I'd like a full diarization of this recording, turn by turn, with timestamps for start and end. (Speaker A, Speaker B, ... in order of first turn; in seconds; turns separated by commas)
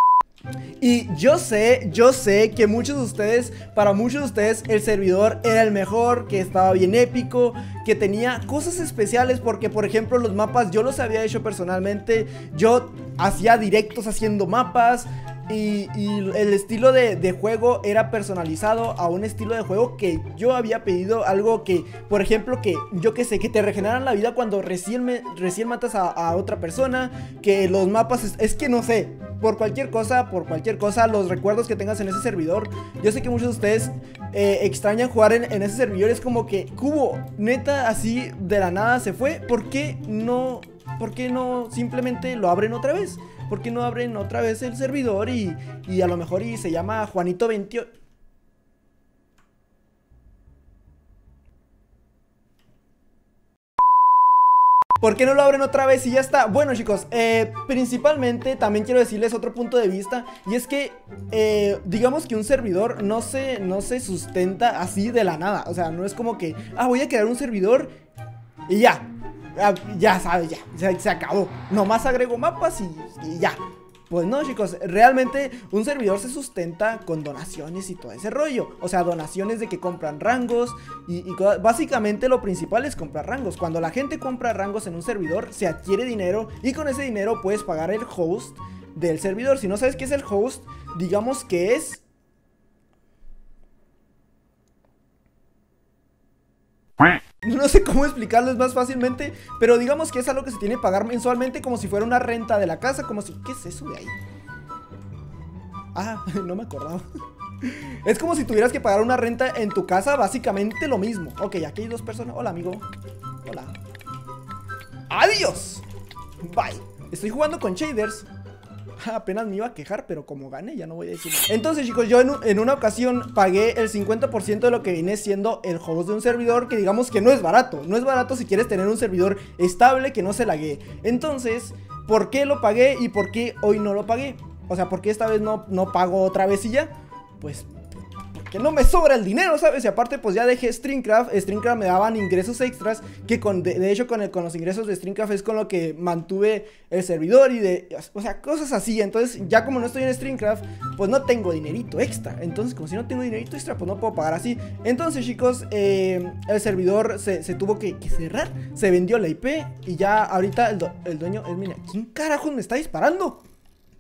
Speaker A: 0.8-47.9, Speaker A: 55.0-67.9, Speaker A: 68.7-92.0, Speaker A: 97.4-104.2, Speaker A: 105.9-107.1, Speaker A: 107.6-112.8, Speaker A: 113.5-113.8, Speaker A: 115.1-115.8, Speaker A: 116.4-118.3, Speaker A: 119.0-163.4